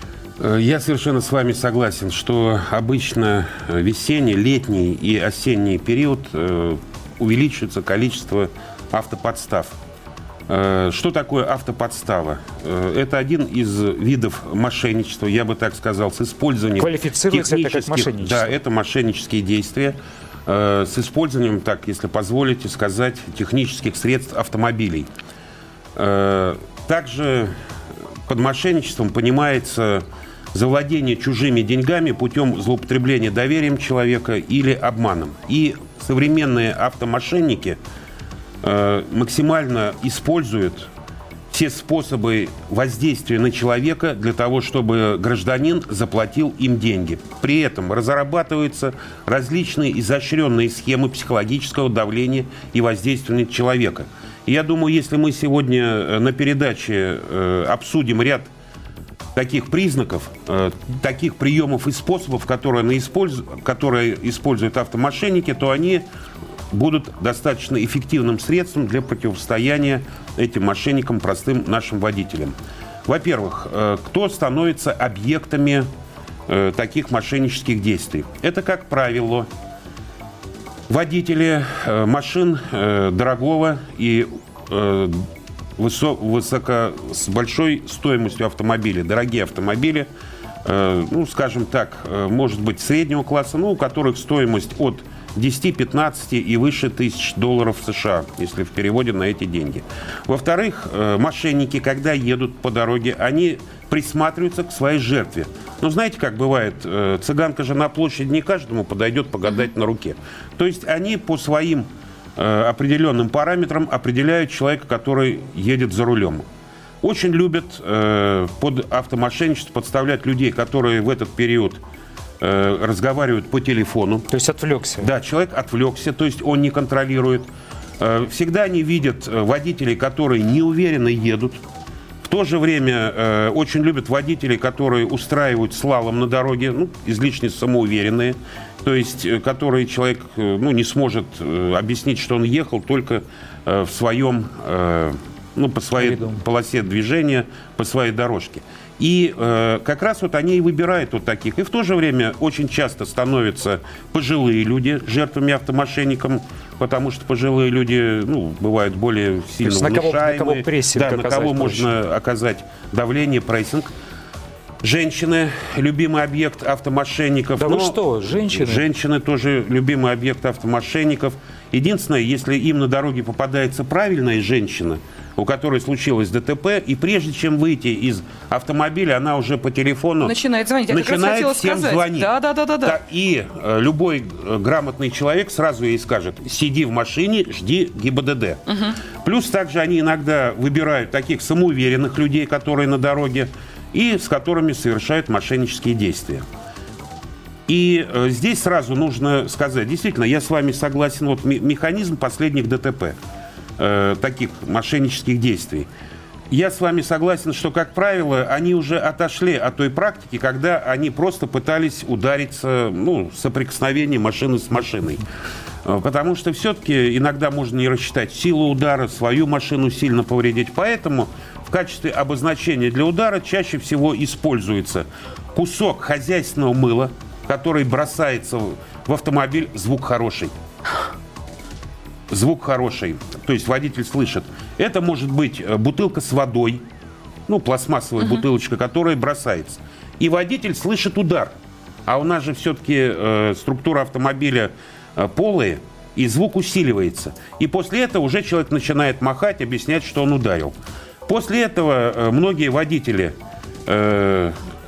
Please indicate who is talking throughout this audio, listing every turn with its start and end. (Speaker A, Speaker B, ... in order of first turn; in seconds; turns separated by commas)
Speaker A: 0.4-9.8, Speaker A: 10.5-19.9, Speaker B: 16.8-18.5, Speaker A: 20.5-25.1, Speaker A: 25.9-27.5, Speaker A: 28.3-37.8, Speaker A: 38.6-40.9, Speaker A: 41.5-58.5, Speaker A: 59.3-66.0, Speaker A: 66.7-72.5, Speaker A: 73.1-75.9, Speaker A: 76.5-79.5, Speaker A: 80.9-85.3, Speaker A: 85.8-90.1, Speaker A: 90.6-116.4, Speaker A: 117.0-121.8, Speaker A: 122.4-124.3, Speaker B: 124.3-125.1, Speaker A: 125.0-127.5, Speaker A: 128.0-131.6, Speaker A: 132.2-163.9, Speaker B: 146.0-146.4, Speaker B: 159.6-162.0, Speaker A: 164.8-180.4, Speaker B: 167.6-168.8, Speaker C: 180.2-183.0, Speaker A: 180.9-196.4, Speaker A: 197.7-203.2, Speaker A: 203.8-205.9, Speaker A: 206.5-215.2, Speaker A: 215.8-230.5, Speaker A: 232.3-236.8, Speaker A: 237.5-241.5, Speaker A: 242.1-250.7, Speaker A: 251.2-253.3, Speaker A: 253.8-254.5